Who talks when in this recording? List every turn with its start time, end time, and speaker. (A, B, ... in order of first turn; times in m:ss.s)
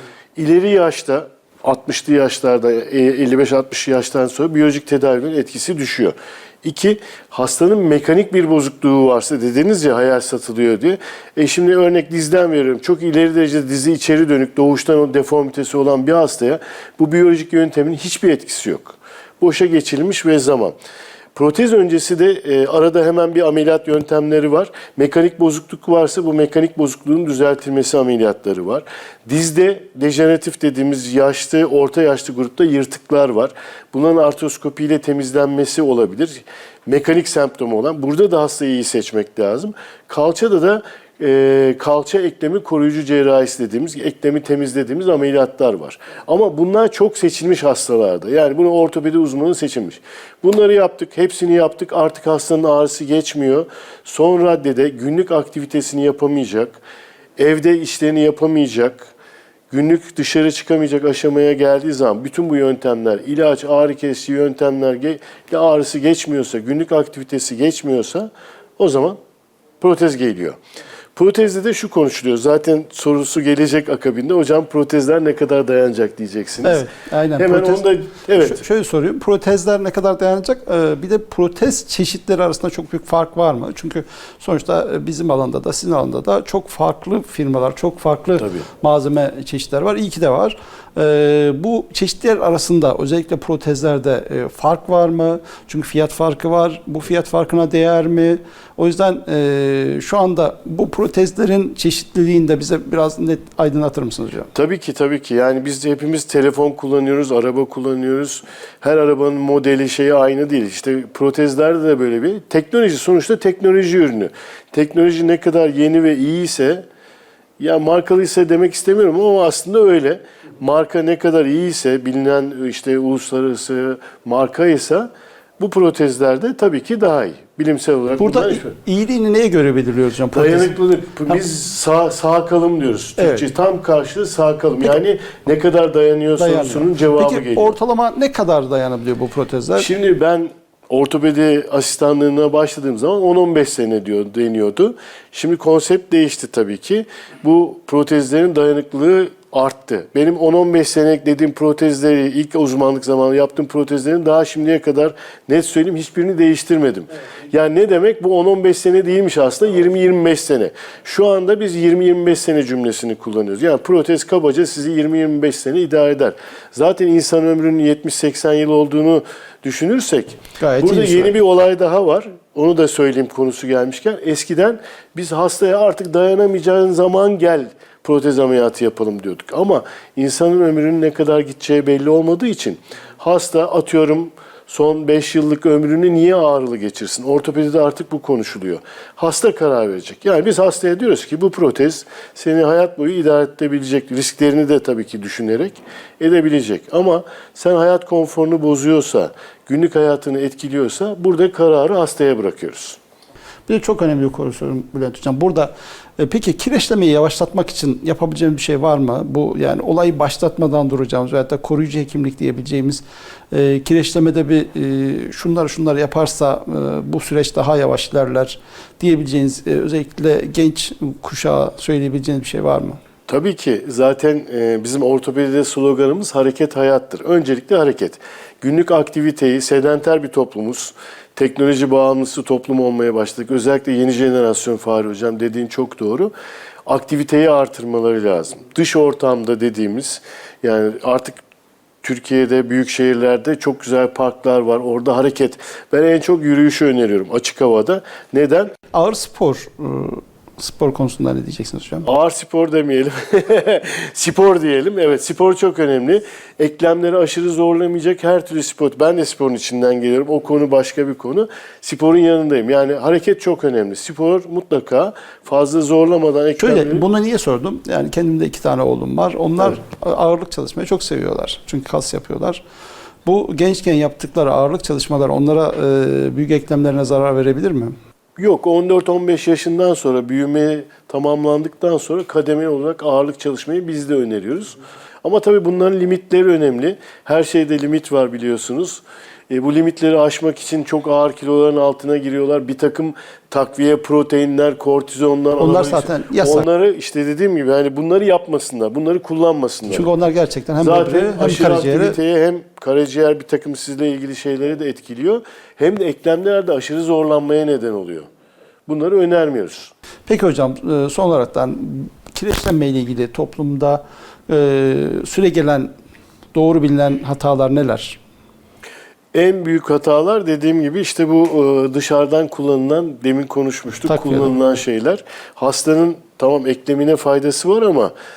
0:00.4-0:20.7 A
0:21.3-0:56.8 A
0:57.4-0:59.1 A
0:59.7-1:09.2 A
1:09.8-1:10.6 A
1:11.2-1:16.9 A
1:16.6-1:44.5 B
1:17.4-1:18.6 A
1:28.4-1:28.6 A
1:44.5-1:56.8 A
1:57.6-2:05.1 A
2:05.6-2:08.7 A
2:08.2-2:10.7 B
2:10.3-2:17.7 A
2:13.2-2:13.5 B
2:16.4-2:19.9 B
2:19.8-3:23.0 A
2:50.6-2:51.3 B
3:23.7-3:43.0 B
3:43.3-3:56.3 A
3:56.8-4:01.4 A
4:02.0-4:08.7 A
4:08.9-4:12.1 B
4:12.0-4:27.0 A
4:26.6-4:32.6 B
4:33.2-4:38.0 B
4:38.4-5:00.1 A
4:55.6-4:56.6 B
4:59.9-5:02.2 B
5:00.8-5:08.3 A
5:08.8-5:09.9 A
5:10.3-5:15.9 B
5:16.5-5:18.2 B
5:19.3-5:28.1 A
5:24.1-5:24.5 B